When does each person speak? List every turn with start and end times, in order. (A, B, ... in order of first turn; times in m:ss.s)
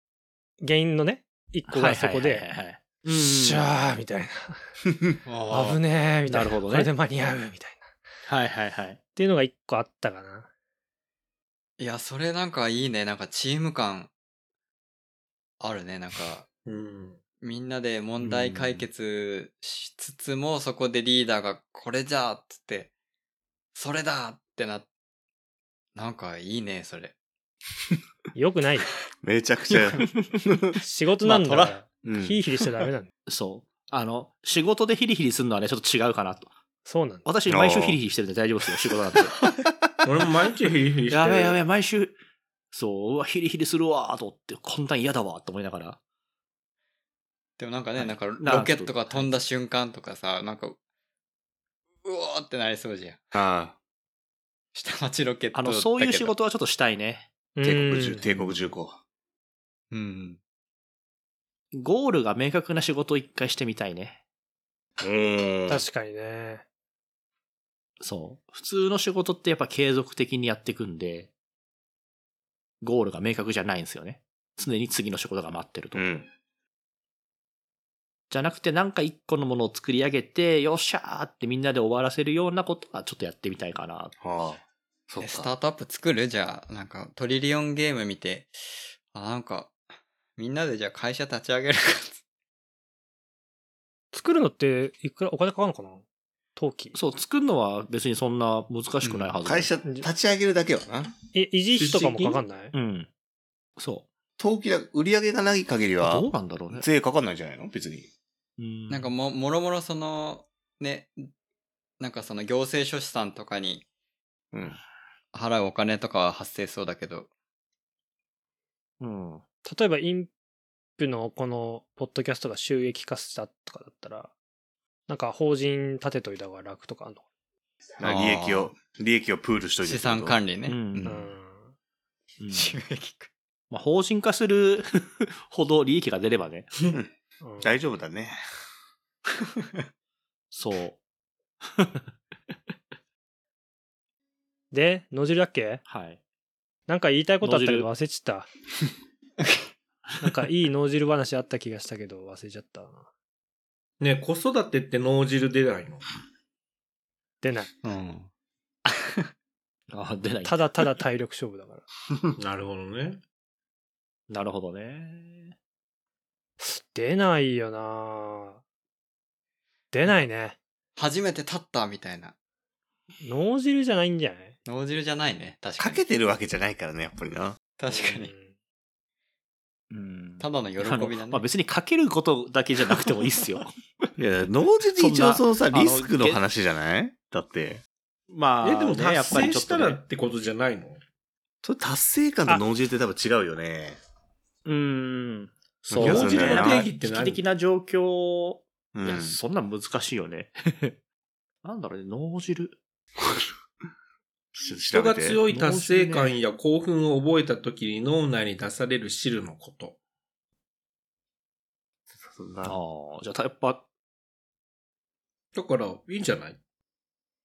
0:00.6-0:02.5 A
0:01.7-0:03.7 B
0:03.1-0:04.7 A
0:05.2-0:05.8 C
0:05.5-0:07.9 A
0:06.3-0:06.9 B
0:08.2-0:09.0 B
0:09.2-0:10.5 A
0:11.8-0:14.1 C
0:15.6-0:16.5 C
0:16.7-0:17.2 D
0:17.4-0:22.9 C
0:18.2-0:18.9 B
0:23.7-0:24.9 C
0:26.0-0:27.2 C
0:28.4-0:28.9 A
0:29.2-0:30.6 E
0:29.8-0:30.0 C
0:30.8-0:33.1 A
0:31.2-0:31.8 C
0:32.0-0:32.4 E
0:33.3-0:36.5 B
0:36.9-0:37.3 A
0:37.2-0:39.3 B
0:37.5-0:38.0 E
0:40.0-0:41.6 D
0:41.1-0:42.2 B
0:42.7-0:46.0 B
0:47.6-0:50.8 C
0:48.0-0:49.4 B
0:52.0-0:53.2 C
0:53.3-0:53.8 E
0:54.7-0:56.3 C
0:55.5-0:57.3 B
0:57.6-0:58.2 A
0:57.6-0:59.0 E
0:58.2-0:58.6 C
0:59.9-1:00.4 C
1:01.8-1:04.2 B
1:05.0-1:05.8 E
1:05.7-1:06.6 A
1:08.0-1:11.3 B
1:12.8-1:16.0 B
1:15.9-1:16.3 E
1:18.3-1:24.1 B
1:24.2-1:25.5 E
1:25.2-1:29.8 C
1:30.4-1:32.2 C
1:34.1-1:36.0 A
1:36.6-1:37.0 A
1:36.9-1:39.7 B
1:39.4-1:41.1 E
1:41.3-1:42.7 A
1:41.7-1:42.4 D
1:42.7-1:43.1 B
1:43.8-1:44.1 B
1:44.4-1:48.1 E
1:46.0-1:46.9 B
1:48.6-1:49.1 B
1:48.9-1:51.3 C
1:52.0-1:53.8 C
1:54.5-1:54.8 E
1:55.3-1:57.3 C
1:59.0-1:59.4 B
1:59.7-2:00.3 A
2:01.0-2:04.3 A
2:05.1-2:07.2 A
2:08.0-2:10.4 E
2:08.0-2:08.7 C
2:09.8-2:11.3 C
2:10.6-2:11.1 B
2:11.1-2:11.7 A
2:12.4-2:12.8 B
2:12.5-2:13.3 C
2:13.7-2:16.7 B
2:16.9-2:18.4 E
2:17.4-2:17.7 A
2:20.5-2:21.0 B
2:21.6-2:22.0 B
2:24.7-2:25.8 A
2:25.9-2:26.2 B
2:26.9-2:28.5 A
2:27.4-2:27.9 B
2:30.2-2:33.1 A
2:34.0-2:36.0 D
2:37.4-2:37.7 A
2:37.8-2:38.3 C
2:38.9-2:39.3 C
2:39.9-2:40.6 B
2:40.4-2:41.8 A
2:42.4-2:43.2 D
2:44.3-2:45.6 B
2:46.6-2:48.6 A
2:49.9-2:50.6 A
2:51.0-2:52.3 C
2:53.2-2:54.6 A
2:54.6-2:56.0 C
2:55.8-2:57.6 E
2:57.8-2:58.3 C
2:57.9-2:58.5 A
2:59.9-3:03.7 B
3:00.4-3:01.5 C
3:04.2-3:07.8 E
3:05.0-3:06.4 B
3:08.3-3:10.0 B
3:08.6-3:11.0 D
3:11.6-3:14.0 E
3:14.6-3:21.0 B
3:15.9-3:16.9 E
3:15.9-3:17.4 D
3:18.9-3:19.4 E
3:21.6-3:22.8 B
3:24.6-3:25.4 E
3:24.9-3:30.0 D
3:25.5-3:26.4 B
3:32.2-3:32.8 E
3:32.6-3:33.8 B
3:35.5-3:36.6 D